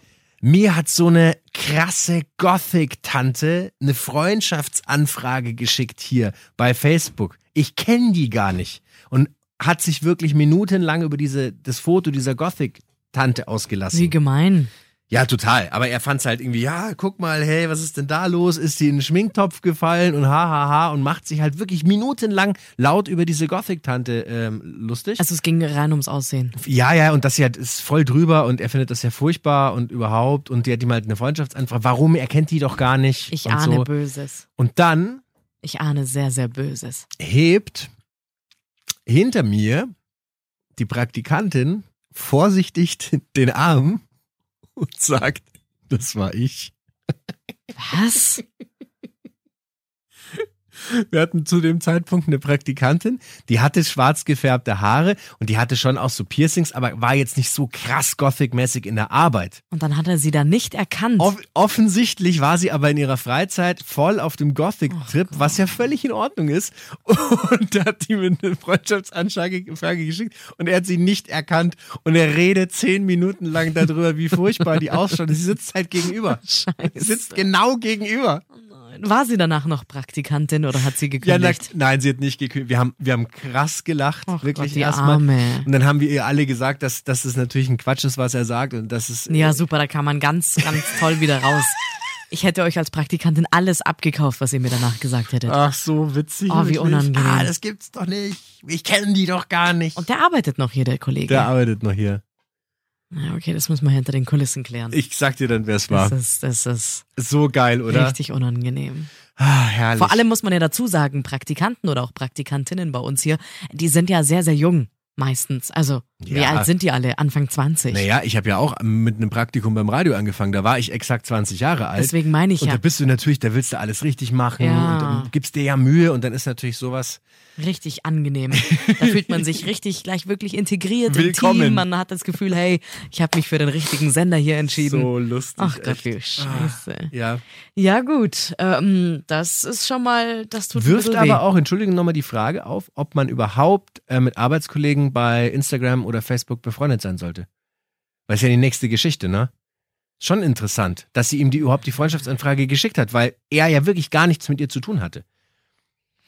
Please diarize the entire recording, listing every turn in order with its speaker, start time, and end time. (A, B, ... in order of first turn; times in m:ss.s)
0:00.4-0:14.1 A
0:13.9-0:14.7 B
0:15.1-0:25.2 A
0:25.2-0:26.6 B
0:26.6-0:33.9 A
0:33.3-0:34.4 B
0:34.6-0:35.2 A
0:35.6-0:37.1 B
0:37.2-0:37.9 A
0:39.1-0:39.9 A
0:40.8-0:44.0 A
0:44.8-0:46.7 A
0:47.8-0:48.4 B
0:50.8-0:59.6 A
0:59.7-1:01.3 B
1:01.2-1:18.4 A
1:04.9-1:05.5 B
1:16.4-1:17.5 B
1:18.5-1:21.7 B
1:21.2-1:29.6 A
1:24.3-1:25.7 B
1:29.3-1:31.8 B
1:32.3-1:35.6 B
1:35.4-1:40.0 A
1:36.5-1:37.5 B
1:40.0-1:41.5 B
1:41.3-1:42.2 A
1:43.1-1:45.0 B
1:44.9-1:46.2 A
1:45.9-1:47.0 B
1:47.2-1:48.2 A
1:47.9-1:49.1 B
1:49.4-1:50.2 A
1:50.0-1:58.1 B
1:56.2-1:56.7 A
1:57.9-2:07.2 A
2:02.0-2:02.8 B
2:04.6-2:05.3 B
2:07.6-2:17.1 B
2:08.5-2:09.6 A
2:11.1-2:11.9 A
2:14.7-2:17.4 A
2:17.8-2:21.4 B
2:20.7-2:27.5 A
2:28.3-2:29.5 A
2:30.2-2:35.2 A